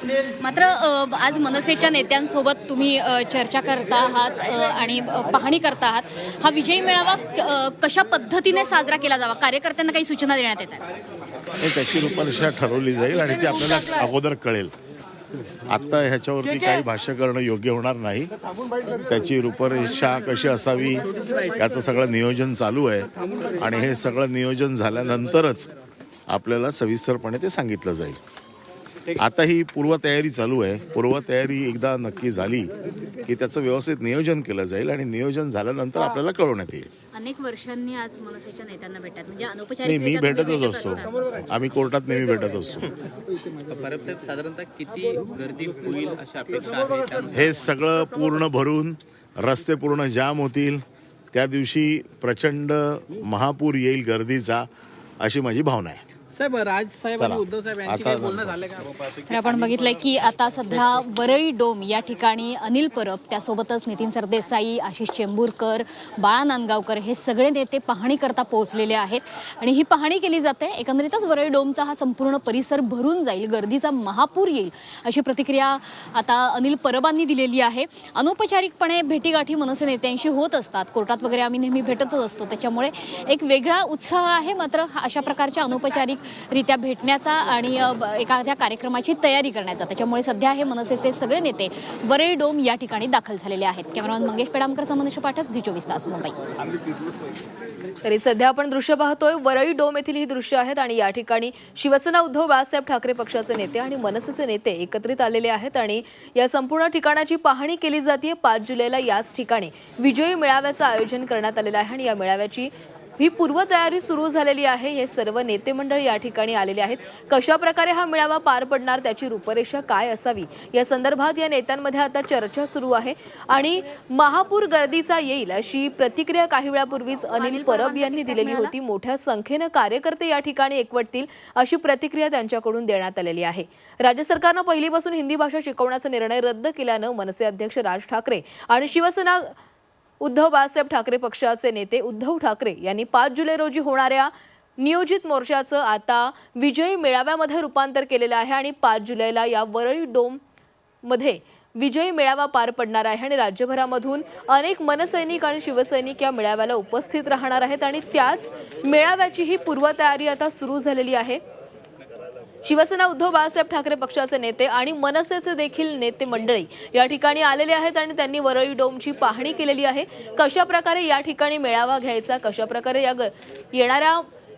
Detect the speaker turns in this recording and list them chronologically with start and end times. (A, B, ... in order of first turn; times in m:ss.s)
0:00.4-0:10.8 A
0:11.6-0:14.7 B
0:15.7-0:18.3 B
0:19.1-0:25.7 B
0:26.3-0:28.2 B
0:29.1-0:36.9 B
0:37.1-0:41.2 A
0:39.8-0:42.9 B
0:43.6-0:47.6 C
0:47.3-0:54.7 B
0:55.2-0:56.0 B
0:56.3-0:58.9 D
0:57.2-0:58.6 B
0:59.1-1:36.4 A
1:38.0-2:19.5 E
2:07.4-2:08.7 A
2:20.2-2:30.4 E
2:31.0-2:41.4 E
2:42.6-2:54.2 E